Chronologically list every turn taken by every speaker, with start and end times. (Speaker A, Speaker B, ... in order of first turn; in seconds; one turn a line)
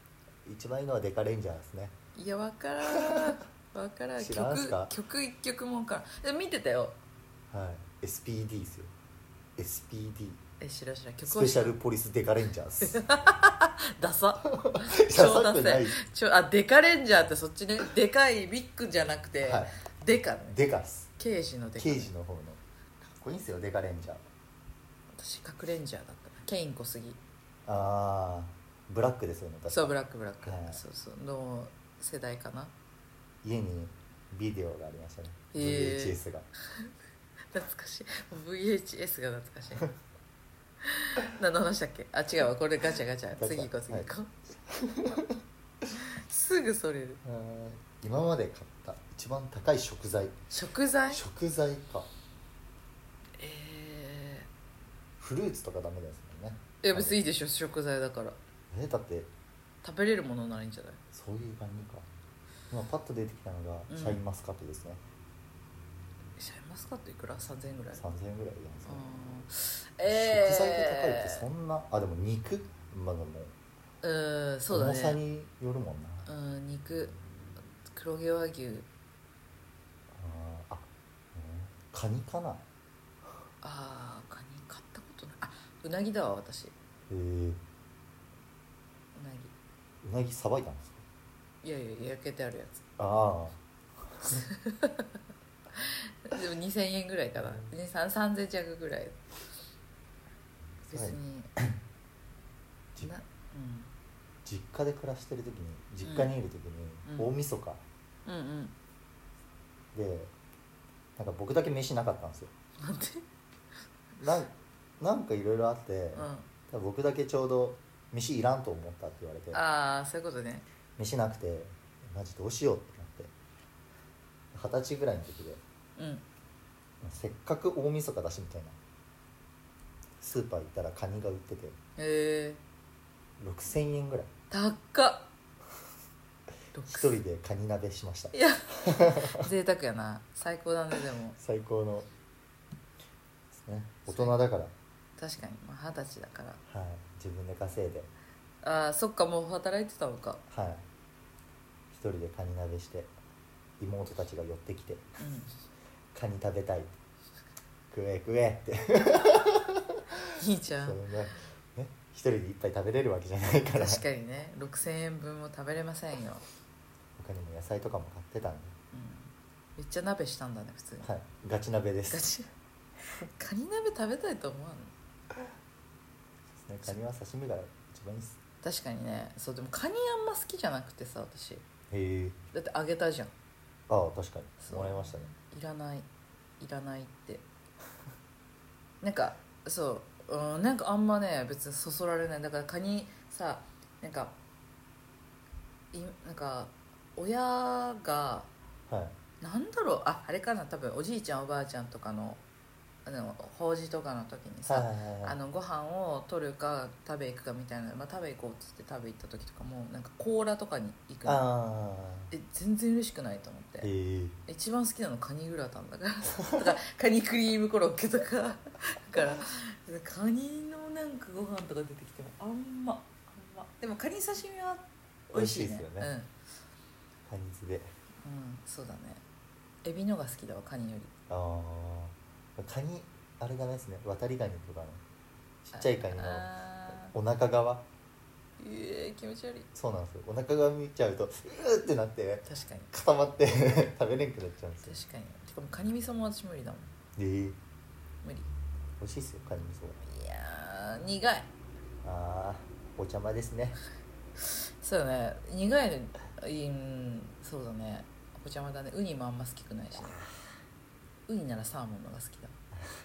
Speaker A: 0.5-2.0
Speaker B: 2.1-7.0
Speaker A: 3.0-3.3
Speaker A: 4.2-4.9
Speaker A: 7.5-8.9
Speaker A: 9.6-10.4
Speaker B: 10.6-11.8
Speaker A: 11.3-13.2
Speaker B: 12.8-20.6
Speaker A: 14.4-16.0
Speaker A: 19.4-19.8
Speaker A: 20.5-21.1
Speaker B: 21.2-22.1
Speaker A: 21.8-24.2
Speaker B: 25.1-27.2
Speaker A: 27.7-30.8
Speaker B: 29.7-32.7
Speaker A: 33.4-36.5
Speaker B: 35.5-36.2
Speaker B: 37.5-39.9
Speaker B: 40.8-44.5
Speaker A: 43.4-44.1
Speaker A: 44.7-45.4
Speaker B: 46.0-47.2
Speaker A: 47.2-50.4
Speaker B: 50.5-51.2
Speaker A: 51.1-52.1
Speaker B: 53.4-54.5
Speaker A: 55.2-57.2
Speaker B: 56.8-58.4
Speaker A: 58.7-59.3
Speaker B: 59.8-61.0
Speaker A: 61.1-62.1
Speaker A: 62.7-65.0
Speaker B: 63.9-64.2
Speaker B: 66.4-68.0
Speaker A: 68.0-69.0
Speaker B: 68.9-71.5
Speaker A: 70.1-73.5
Speaker B: 74.0-75.2
Speaker A: 74.7-76.3
Speaker B: 76.2-77.2
Speaker B: 77.9-78.9
Speaker A: 80.1-82.6
Speaker B: 83.6-86.7
Speaker A: 87.1-87.6
Speaker B: 89.2-89.5
Speaker A: 90.0-91.0
Speaker B: 91.6-92.8
Speaker A: 93.0-94.4
Speaker B: 94.2-95.1
Speaker B: 95.8-99.2
Speaker A: 100.8-101.8
Speaker B: 100.9-101.5
Speaker B: 103.0-103.9
Speaker A: 104.5-107.8
Speaker B: 106.0-106.3
Speaker B: 107.1-107.3
Speaker B: 108.3-108.8
Speaker A: 109.9-110.3
Speaker A: 111.2-112.5
Speaker B: 112.8-113.2
Speaker A: 114.2-119.6
Speaker B: 116.2-116.5
Speaker B: 119.5-120.6
Speaker A: 121.0-123.3
Speaker A: 124.5-125.6
Speaker B: 126.0-126.2
Speaker A: 127.0-128.8
Speaker A: 130.2-131.8
Speaker B: 132.0-132.6
Speaker A: 133.4-134.3
Speaker B: 134.5-135.3
Speaker B: 136.8-137.1
Speaker A: 136.9-139.5
Speaker B: 138.3-141.4
Speaker A: 141.4-142.1
Speaker A: 143.5-144.7
Speaker B: 144.1-144.4
Speaker B: 145.2-146.6
Speaker A: 146.7-148.1
Speaker B: 148.6-150.4
Speaker A: 150.5-150.8
Speaker A: 151.9-153.1
Speaker A: 153.8-155.1
Speaker B: 155.2-155.5
Speaker A: 156.1-157.0
Speaker A: 157.9-160.0
Speaker B: 160.4-161.0
Speaker A: 160.8-164.0
Speaker B: 163.7-166.4
Speaker A: 167.2-168.8
Speaker B: 168.9-171.1
Speaker A: 171.0-172.2
Speaker B: 172.1-172.5
Speaker B: 173.1-174.9
Speaker A: 176.5-178.4
Speaker B: 178.6-181.7
Speaker A: 181.9-182.4
Speaker B: 182.5-183.3
Speaker A: 183.9-185.3
Speaker B: 184.6-186.1
Speaker B: 186.6-187.4
Speaker B: 189.0-194.3
Speaker B: 195.9-198.5
Speaker A: 198.9-199.2
Speaker B: 199.4-202.4
Speaker B: 203.1-211.4
Speaker A: 204.7-205.4
Speaker A: 211.2-212.3
Speaker B: 212.3-213.9
Speaker A: 213.8-214.4
Speaker B: 214.5-226.3
Speaker A: 225.3-226.1
Speaker A: 227.3-227.9
Speaker B: 228.2-229.2
Speaker B: 229.8-231.1
Speaker A: 231.3-235.0
Speaker A: 235.7-236.5
Speaker B: 235.7-237.1
Speaker A: 237.1-237.9
Speaker B: 238.6-239.7
Speaker A: 239.7-245.0
Speaker B: 242.5-242.9
Speaker B: 244.8-246.9
Speaker A: 247.2-247.6
Speaker B: 248.2-248.5
Speaker A: 249.0-250.0
Speaker B: 250.1-251.5
Speaker A: 252.0-253.8
Speaker B: 254.8-260.2
Speaker B: 261.3-262.6